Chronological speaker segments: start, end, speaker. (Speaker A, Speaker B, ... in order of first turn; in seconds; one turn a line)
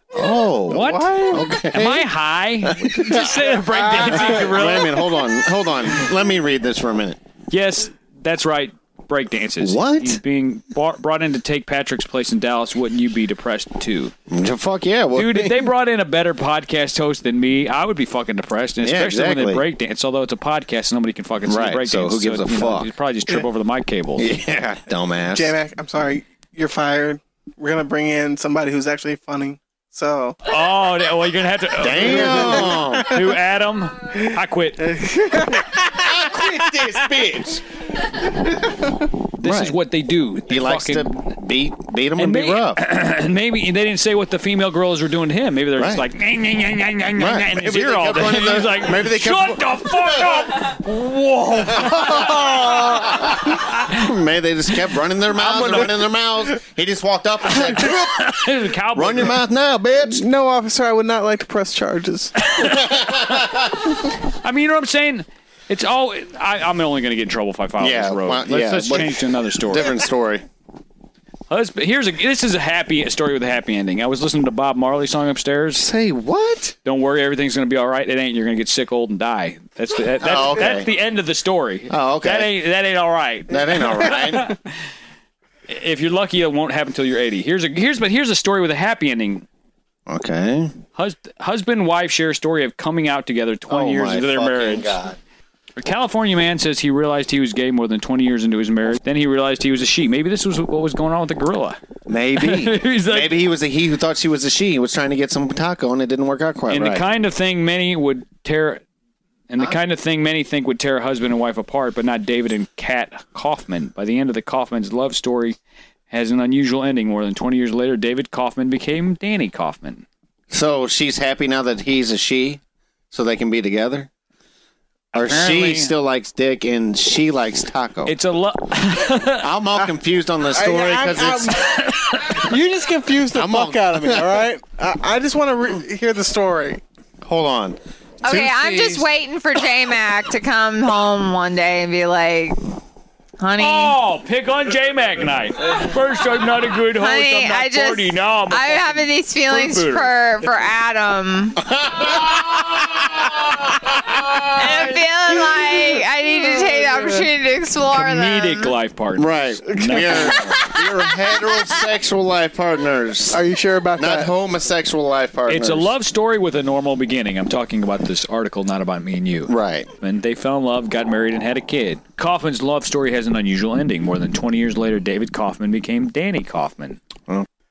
Speaker A: 0.1-2.1
Speaker B: 0.7-1.5
Speaker C: 0.7-5.0
Speaker A: 2.6-7.2
Speaker C: 7.5-14.1
Speaker A: 9.6-10.2
Speaker A: 14.3-15.7
Speaker C: 15.2-24.3
Speaker A: 18.8-19.6
Speaker A: 21.5-22.9
Speaker A: 24.2-25.6
Speaker B: 25.3-30.4
Speaker C: 30.5-34.8
Speaker A: 31.8-33.2
Speaker B: 32.0-33.0
Speaker B: 34.8-36.5
Speaker A: 35.9-37.6
Speaker C: 39.4-41.2
Speaker A: 39.4-39.8
Speaker A: 40.5-42.8
Speaker C: 42.2-54.1
Speaker A: 45.8-46.1
Speaker A: 47.2-50.4
Speaker A: 51.6-60.2
Speaker C: 55.4-55.9
Speaker C: 57.5-59.4
Speaker B: 60.1-62.3
Speaker C: 62.4-63.2
Speaker A: 62.6-63.9
Speaker C: 64.3-70.0
Speaker A: 67.8-70.5
Speaker C: 71.5-75.9
Speaker A: 75.8-76.8
Speaker C: 76.8-84.7
Speaker A: 80.2-80.9
Speaker A: 81.9-82.6
Speaker A: 83.5-84.5
Speaker C: 85.7-89.5
Speaker A: 90.1-90.7
Speaker C: 91.0-95.0
Speaker A: 93.7-95.2
Speaker C: 95.8-101.8
Speaker A: 102.1-107.1
Speaker C: 102.4-103.5
Speaker C: 106.7-108.8
Speaker C: 109.5-115.6
Speaker C: 116.1-120.1
Speaker A: 120.5-124.1
Speaker C: 125.1-125.9
Speaker A: 125.1-128.2
Speaker C: 128.1-129.5
Speaker A: 129.4-131.6
Speaker B: 130.6-136.8
Speaker C: 131.8-132.4
Speaker A: 133.3-134.4
Speaker A: 137.2-139.1
Speaker D: 138.2-142.6
Speaker D: 143.4-144.0
Speaker C: 143.6-150.2
Speaker D: 146.9-151.7
Speaker A: 151.7-152.7
Speaker A: 154.1-154.5
Speaker D: 154.5-158.7
Speaker B: 156.5-157.2
Speaker C: 157.9-160.4
Speaker A: 159.2-165.9
Speaker D: 160.5-161.8
Speaker B: 163.3-164.3
Speaker C: 165.5-177.0
Speaker A: 169.5-169.9